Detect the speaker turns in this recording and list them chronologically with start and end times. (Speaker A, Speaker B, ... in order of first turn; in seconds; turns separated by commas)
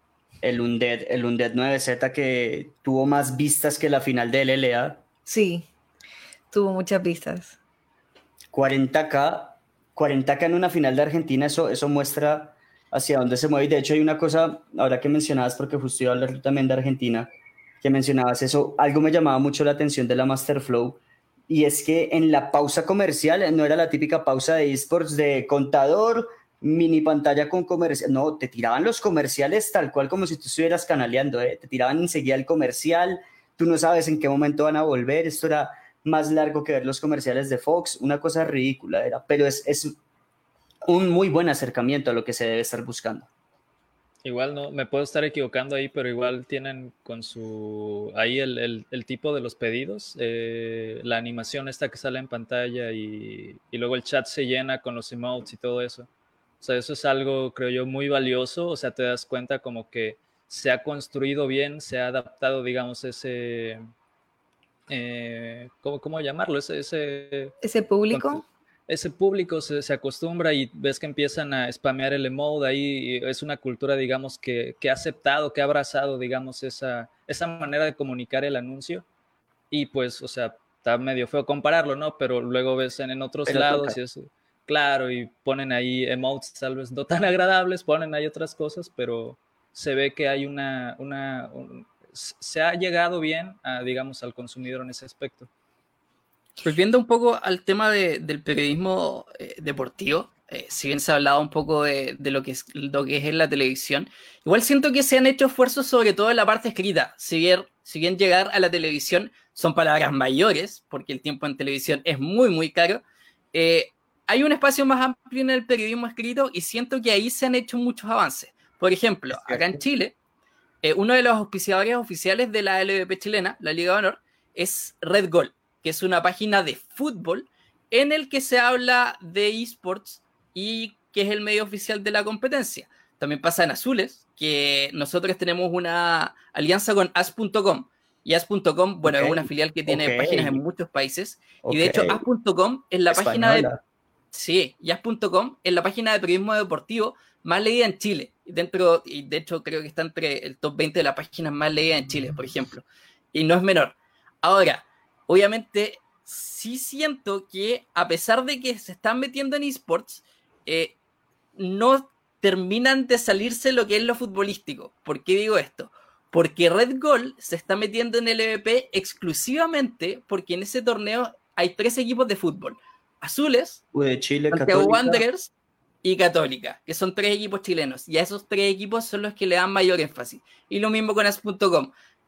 Speaker A: 0.4-5.0, Speaker B: 5.2-5.7, Speaker B: 6.5-7.6, Speaker A: 8.5-40.0, Speaker A: 40.9-43.3, Speaker C: 44.2-56.1, Speaker C: 56.6-63.8, Speaker C: 64.9-67.5, Speaker B: 67.6-68.4, Speaker C: 68.1-79.0, Speaker C: 79.7-95.5, Speaker A: 83.5-84.0, Speaker D: 96.6-113.0, Speaker D: 113.5-120.2, Speaker A: 119.3-119.7, Speaker D: 120.8-143.7, Speaker A: 139.1-140.6, Speaker A: 141.6-142.2, Speaker A: 143.1-143.8, Speaker D: 144.3-160.9, Speaker D: 161.6-173.8, Speaker A: 173.9-175.2, Speaker D: 174.5-175.5, Speaker D: 176.0-181.9